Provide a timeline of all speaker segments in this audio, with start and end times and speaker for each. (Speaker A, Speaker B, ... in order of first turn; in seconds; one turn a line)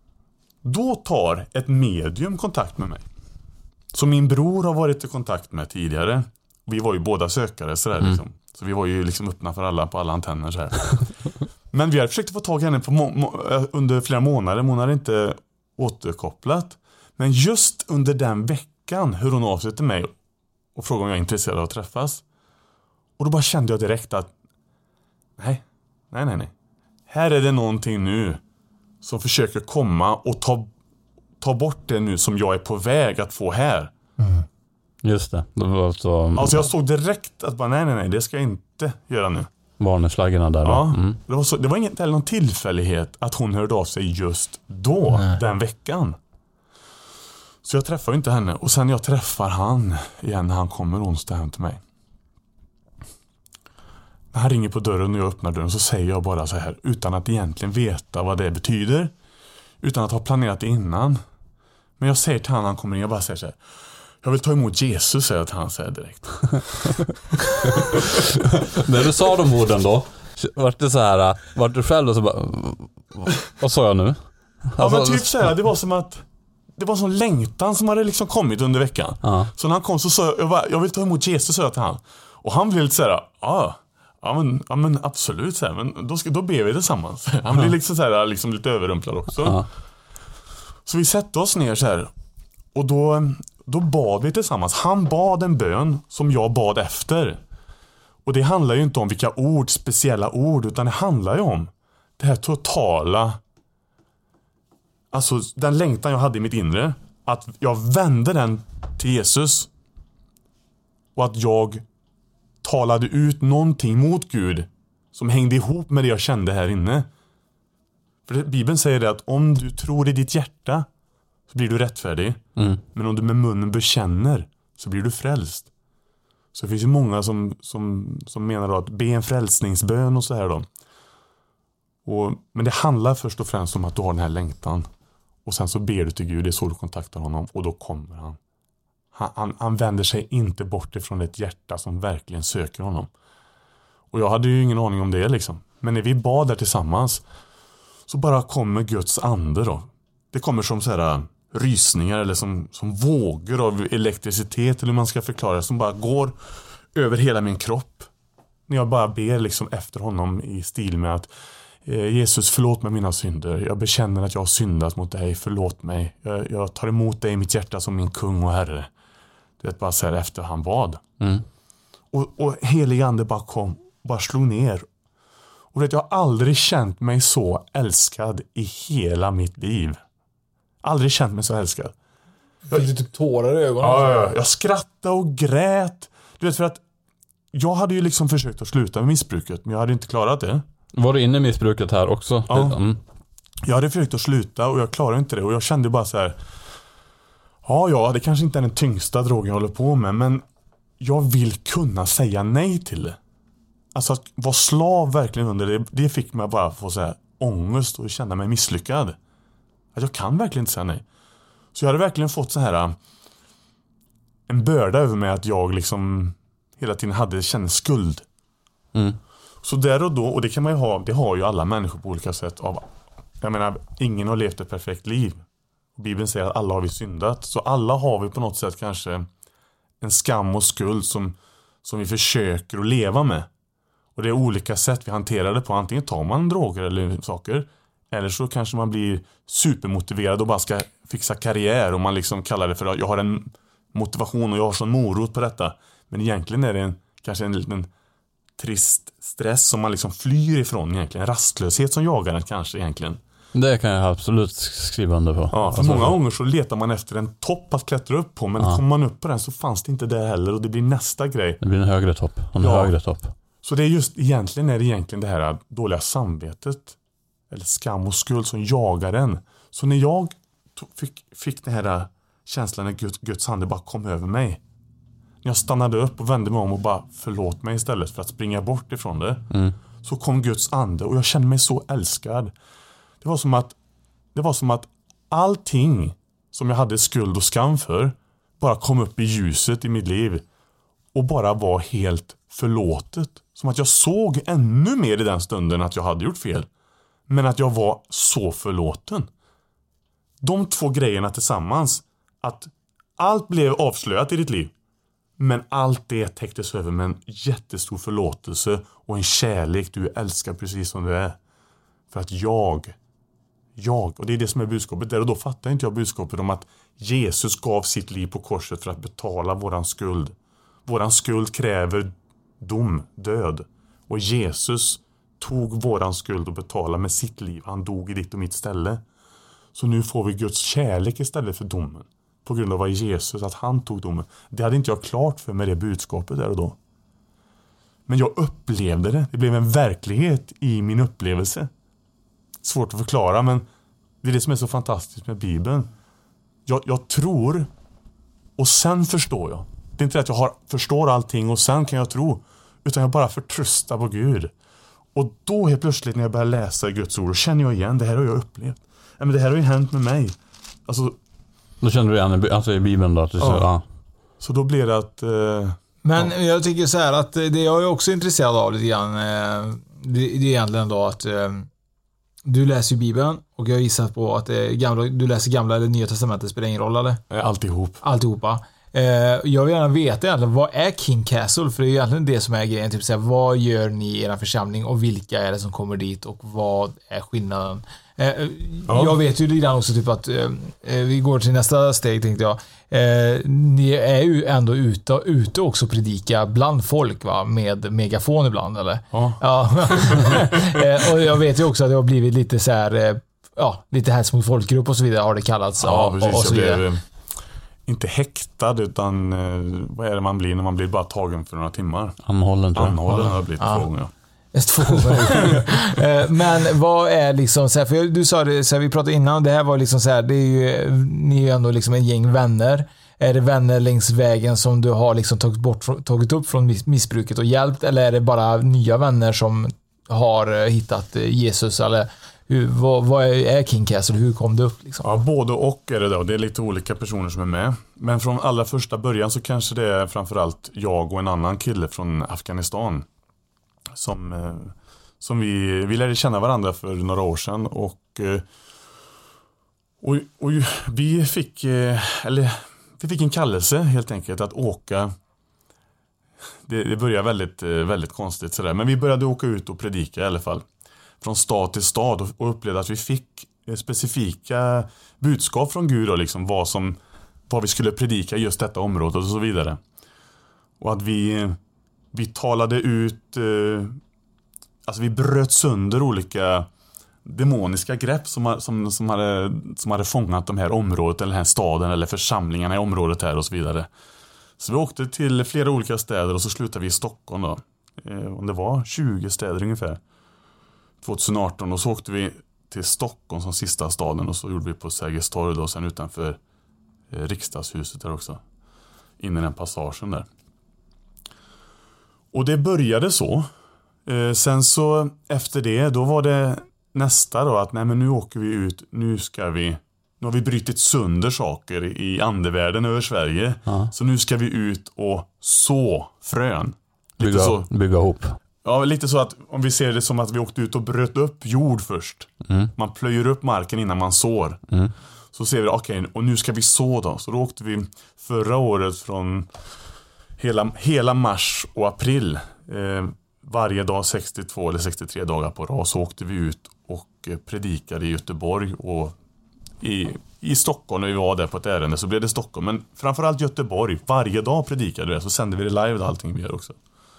Speaker A: 0.6-3.0
Speaker A: 3.9-10.9
Speaker A: 11.7-20.1
Speaker A: 20.8-22.2
Speaker A: 23.2-24.3
Speaker A: 25.4-26.5
Speaker A: 27.1-28.4
Speaker A: 29.0-30.7
Speaker A: 31.4-33.9
Speaker B: 34.2-34.5
Speaker C: 35.0-36.7
Speaker A: 36.4-39.5
Speaker C: 39.8-41.2
Speaker A: 40.6-46.2
Speaker A: 47.6-51.8
Speaker A: 54.3-59.1
Speaker A: 59.8-61.2
Speaker A: 62.0-63.6
Speaker A: 64.2-67.0
Speaker C: 68.7-75.4
Speaker A: 74.8-76.2
Speaker A: 76.8-89.7
Speaker C: 79.2-79.5
Speaker C: 89.4-89.7
Speaker A: 90.8-92.1
Speaker A: 92.7-97.4
Speaker A: 98.2-103.4
Speaker A: 105.1-109.7
Speaker A: 111.2-111.8
Speaker A: 112.6-117.1
Speaker A: 118.3-120.9
Speaker A: 121.5-125.7
Speaker A: 126.5-130.7
Speaker A: 132.1-134.9
Speaker A: 135.4-138.4
Speaker A: 139.1-143.1
Speaker A: 144.1-147.2
Speaker A: 148.1-156.4
Speaker A: 156.9-158.1
Speaker A: 158.7-161.3
Speaker A: 161.8-168.9
Speaker A: 169.6-171.0
Speaker C: 171.2-171.4
Speaker A: 172.1-174.9
Speaker A: 175.7-180.0
Speaker A: 180.8-181.9
Speaker B: 182.7-184.2
Speaker A: 183.8-186.8
Speaker A: 187.5-190.7
Speaker C: 190.9-193.0
Speaker A: 192.5-192.8
Speaker A: 193.6-196.4
Speaker A: 197.6-200.4
Speaker A: 201.0-203.2
Speaker A: 203.9-209.2
Speaker A: 209.9-211.1
Speaker A: 211.7-213.0
Speaker A: 214.5-218.2
Speaker A: 219.6-222.8
Speaker A: 223.4-225.4
Speaker A: 226.0-229.3
Speaker A: 230.0-233.5
Speaker A: 234.2-247.9
Speaker A: 248.6-253.2
Speaker C: 253.6-256.2
Speaker A: 255.5-261.6
Speaker C: 261.6-263.3
Speaker A: 262.6-263.0
Speaker A: 263.6-267.0
Speaker A: 267.5-274.6
Speaker A: 275.4-279.5
Speaker A: 280.0-282.5
Speaker A: 283.2-283.8
Speaker A: 284.3-290.4
Speaker A: 291.1-296.7
Speaker A: 297.3-299.3
Speaker A: 300.4-304.7
Speaker A: 305.4-311.4
Speaker A: 312.1-312.9
Speaker A: 313.8-320.4
Speaker A: 320.9-329.0
Speaker A: 329.7-336.8
Speaker A: 338.1-341.7
Speaker A: 342.6-343.7
Speaker A: 344.2-345.9
Speaker A: 346.7-347.7
Speaker A: 348.6-354.5
Speaker A: 355.1-361.2
Speaker C: 361.8-363.8
Speaker A: 363.4-363.7
Speaker A: 364.4-366.3
Speaker B: 366.0-371.7
Speaker B: 372.5-377.2
Speaker A: 377.3-378.0
Speaker B: 378.0-406.8
Speaker A: 388.9-389.2
Speaker A: 399.1-400.4
Speaker A: 405.8-407.0
Speaker A: 407.9-412.2
Speaker C: 412.3-413.0
Speaker A: 412.7-414.1
Speaker B: 413.1-413.9
Speaker B: 414.5-435.0
Speaker A: 435.0-443.1
Speaker A: 443.9-448.4
Speaker A: 450.0-455.1
Speaker A: 456.6-460.6
Speaker A: 461.2-469.8
Speaker A: 470.8-471.6
Speaker A: 472.1-474.0
Speaker A: 474.9-476.7
Speaker A: 477.2-483.9
Speaker A: 484.6-490.0
Speaker A: 491.0-496.4
Speaker A: 497.1-498.4
Speaker A: 499.2-500.3
Speaker A: 502.3-503.5
Speaker A: 504.1-517.7
Speaker C: 517.2-518.4
Speaker A: 518.6-524.6
Speaker A: 525.3-529.5
Speaker A: 530.4-539.1
Speaker A: 539.8-546.8